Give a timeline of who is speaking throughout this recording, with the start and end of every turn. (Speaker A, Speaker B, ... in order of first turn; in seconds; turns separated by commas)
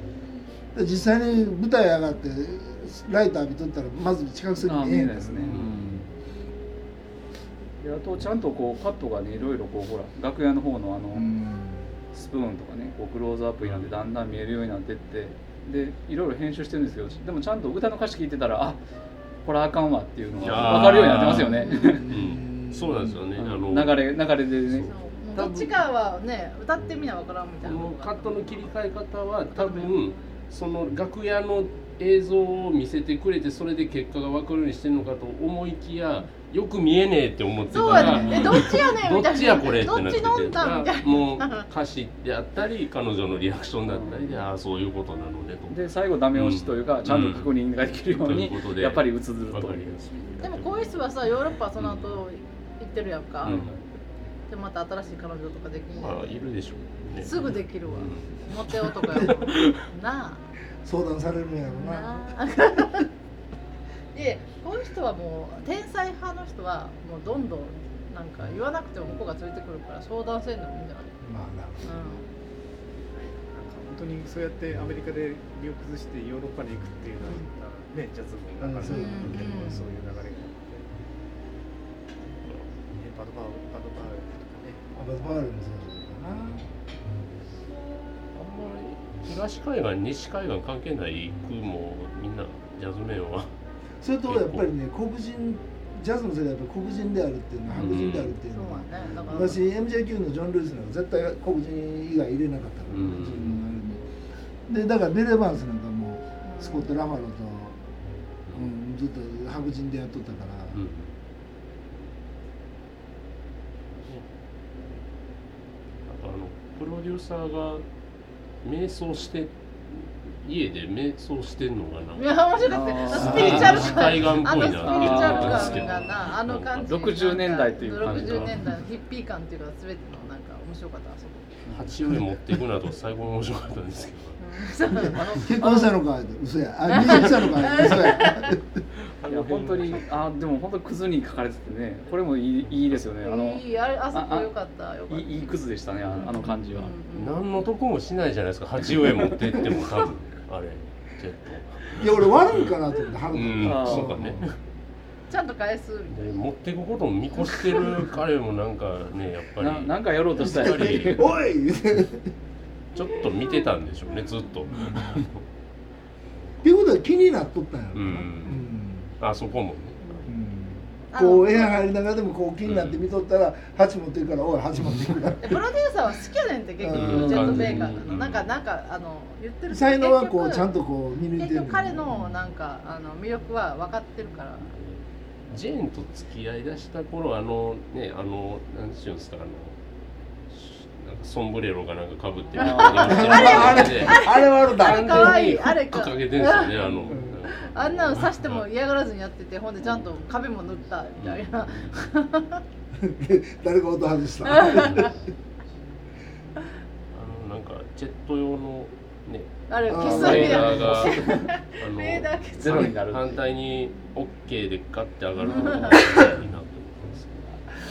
Speaker A: 0.7-6.0, Speaker B: 4.6-5.6, Speaker C: 5.5-6.0, Speaker B: 7.8-11.3, Speaker A: 11.1-11.8, Speaker B: 12.1-18.8, Speaker C: 13.6-13.9, Speaker B: 19.4-22.1, Speaker C: 20.4-24.1, Speaker A: 21.3-23.2, Speaker B: 23.4-24.9, Speaker C: 24.7-25.8, Speaker D: 24.9-28.6, Speaker C: 27.6-45.8, Speaker D: 29.5-29.9, Speaker D: 37.7-41.7, Speaker B: 37.8-38.6, Speaker B: 43.9-44.4, Speaker B: 45.7-49.9, Speaker C: 46.3-47.5, Speaker C: 48.2-51.0, Speaker D: 50.4-53.7, Speaker C: 51.8-52.2, Speaker C: 53.4-53.7, Speaker B: 53.5-53.8, Speaker D: 54.5-56.4, Speaker C: 56.0-59.8, Speaker D: 57.2-60.4, Speaker A: 60.8-62.4, Speaker D: 61.8-63.1, Speaker D: 64.1-71.2, Speaker A: 71.2-72.1, Speaker D: 71.8-72.2, Speaker E: 73.1-80.9, Speaker D: 77.2-77.5, Speaker A: 78.6-79.6, Speaker D: 78.9-79.8, Speaker E: 82.8-84.8, Speaker A: 84.9-86.6, Speaker C: 88.3-93.5, Speaker A: 94.0-104.0, Speaker C: 94.3-94.7, Speaker C: 97.7-98.3, Speaker D: 98.5-99.6, Speaker C: 102.9-103.6, Speaker B: 103.3-103.6, Speaker A: 104.7-107.8, Speaker D: 106.4-106.9, Speaker A: 108.5-110.8, Speaker C: 110.7-111.1, Speaker C: 116.0-117.8, Speaker C: 118.6-127.3, Speaker D: 122.2-131.6, Speaker B: 122.7-126.1, Speaker A: 123.2-124.0, Speaker B: 126.8-128.6, Speaker C: 128.0-128.7, Speaker C: 131.7-134.4, Speaker D: 134.4-135.5, Speaker B: 135.0-135.9, Speaker A: 135.3-138.6, Speaker D: 136.9-138.6, Speaker C: 139.2-140.1, Speaker B: 139.3-144.5, Speaker D: 143.2-145.6, Speaker B: 145.1-146.9, Speaker D: 146.2-147.4, Speaker C: 147.1-152.8, Speaker A: 151.9-154.5, Speaker C: 153.3-154.6, Speaker B: 153.6-154.2, Speaker D: 155.3-156.3, Speaker C: 156.1-161.3, Speaker D: 157.5-158.0, Speaker B: 159.6-161.3, Speaker A: 160.4-162.3, Speaker C: 162.9-165.4, Speaker A: 164.7-165.2, Speaker A: 166.6-169.1, Speaker C: 167.9-168.7, Speaker C: 169.2-170.3, Speaker A: 170.3-175.6, Speaker D: 171.1-171.8, Speaker C: 172.7-173.0, Speaker D: 175.4-180.7, Speaker A: 176.8-177.8, Speaker C: 176.9-178.5, Speaker B: 177.3-177.6, Speaker A: 179.7-182.3, Speaker D: 181.3-184.7, Speaker C: 184.7-189.8, Speaker C: 190.5-198.7, Speaker B: 192.6-193.6, Speaker D: 192.6-197.2, Speaker A: 192.9-195.4, Speaker A: 197.1-197.4, Speaker D: 197.7-202.6, Speaker C: 201.2-201.5, Speaker B: 201.7-201.9, Speaker A: 203.0-205.1, Speaker D: 204.5-205.0, Speaker C: 207.1-217.6, Speaker D: 209.7-212.9, Speaker A: 209.9-210.9, Speaker B: 210.0-211.5, Speaker B: 212.6-213.3, Speaker D: 215.4-216.2, Speaker B: 215.4-216.1